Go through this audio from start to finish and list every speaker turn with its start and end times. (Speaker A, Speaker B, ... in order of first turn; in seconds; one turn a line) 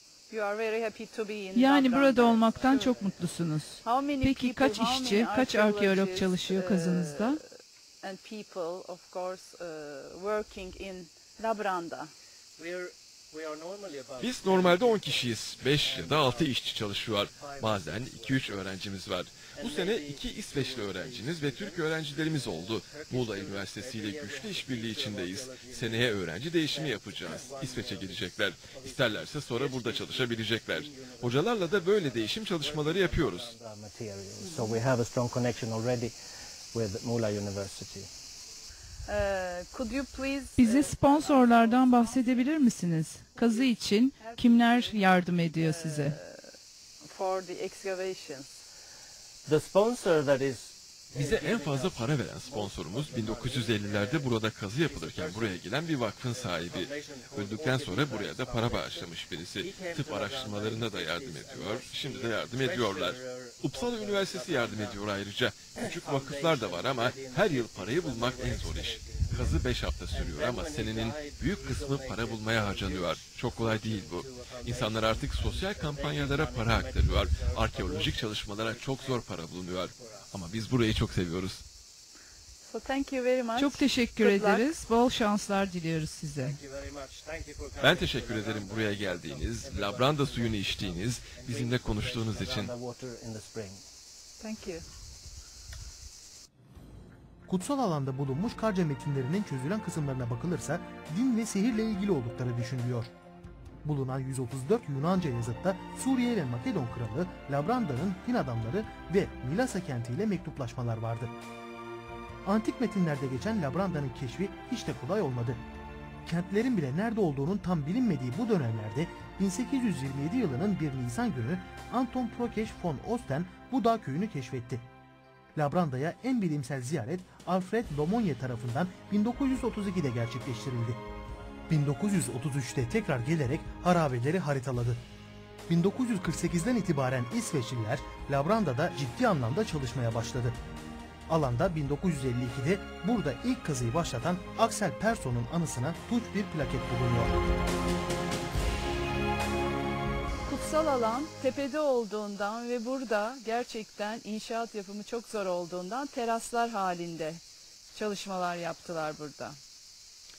Speaker A: 0.3-3.0
Speaker B: 1.5-7.4
Speaker C: 2.5-3.3
Speaker A: 3.8-7.4
Speaker A: 8.0-12.1
Speaker C: 12.6-16.6
Speaker D: 14.2-33.5
Speaker C: 17.1-18.8
Speaker C: 19.5-36.1
Speaker A: 34.5-34.8
Speaker C: 36.7-38.1
Speaker A: 39.1-42.6
Speaker B: 40.6-46.2
Speaker A: 43.3-46.4
Speaker A: 47.0-48.5
Speaker C: 49.5-65.0
Speaker D: 51.2-81.6
Speaker C: 65.8-80.3
Speaker A: 82.7-84.7
Speaker B: 83.6-86.6
Speaker C: 86.4-93.8
Speaker D: 87.8-92.7
Speaker A: 94.4-94.8
Speaker E: 97.5-103.1
Speaker E: 103.8-111.3
Speaker E: 112.5-115.6
Speaker E: 116.3-124.9
Speaker E: 125.5-131.0
Speaker E: 131.7-135.0
Speaker E: 135.7-140.6
Speaker E: 141.3-147.3
Speaker A: 150.5-157.4
Speaker A: 157.9-159.6